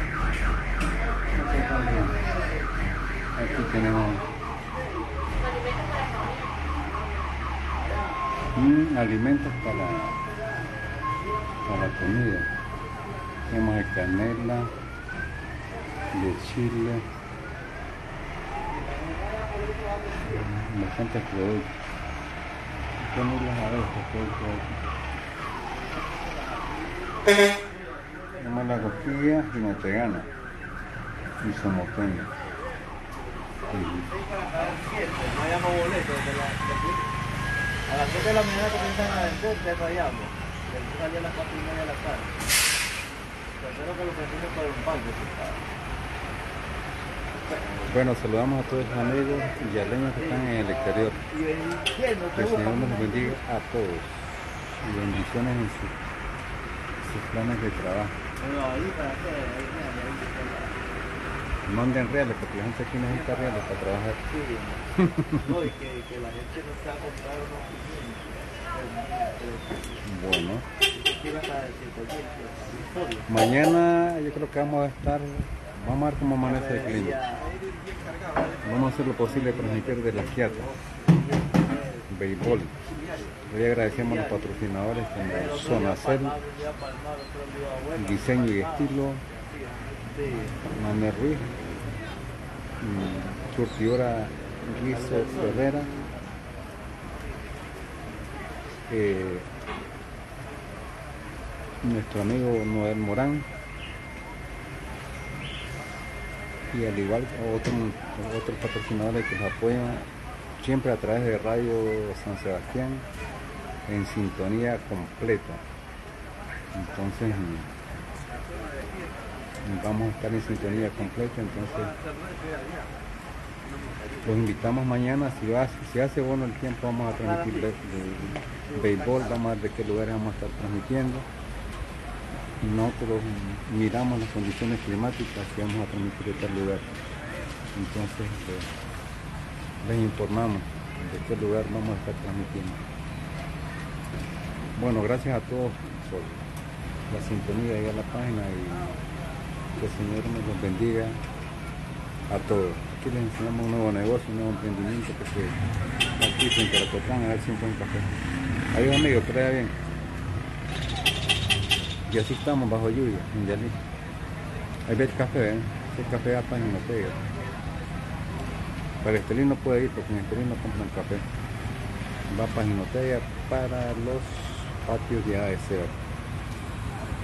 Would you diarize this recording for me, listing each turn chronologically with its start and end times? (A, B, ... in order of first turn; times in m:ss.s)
0:01.3-0:02.2 A
0:03.4-0:04.2 A
0:08.5-0:10.2 A
0:11.6-0:12.5 A
0:13.5-0:14.7 A
0:16.1-0:17.0 A
0:20.2-0:21.8 A
0:23.0-0:24.8 A
0:28.4-0:30.3 A
0:31.4-0:32.3 A
0:33.7-0:34.1 A
0:34.2-0:37.0 B
0:37.9-0:42.3 B
0:43.6-0:45.6 B
0:47.8-0:51.2 A
0:50.4-0:53.1 B
0:52.4-0:56.0 A
0:57.0-0:58.2 A
0:58.4-1:00.8 B
1:01.7-1:04.2 A
1:04.3-1:04.9 B
1:05.0-1:05.4 A
1:05.4-1:10.0 B
1:10.0-1:10.7 A
1:10.9-1:13.3 B
1:13.3-1:17.2 A
1:16.5-1:18.4 B
1:18.6-1:20.6 A
1:19.1-1:22.1 B
1:22.1-1:22.8 A
1:23.5-1:26.4 A
1:24.1-1:24.4 B
1:25.3-1:28.7 B
1:27.9-1:29.2 A
1:29.4-1:30.6 B
1:30.7-1:31.5 A
1:32.8-1:36.0 A
1:35.0-1:35.5 B
1:38.9-1:39.5 A
1:41.8-1:43.5 A
1:46.7-1:50.1 A
1:50.6-1:53.1 A
1:53.9-1:55.6 A
1:56.7-1:57.7 A
1:58.7-1:58.9 B
1:59.6-2:02.0 A
2:00.6-2:01.0 B
2:01.9-2:02.9 B
2:04.2-2:11.3 A
2:08.8-2:09.1 B
2:12.6-2:16.9 A
2:17.7-2:18.7 A
2:19.8-2:22.8 A
2:24.8-2:26.4 A
2:27.1-2:29.0 A
2:29.8-2:31.2 A
2:32.3-2:35.6 A
2:36.2-2:38.1 A
2:38.7-2:39.8 A
2:42.1-2:43.8 A
2:44.9-2:47.3 A
2:49.0-2:51.3 A
2:52.3-2:56.0 A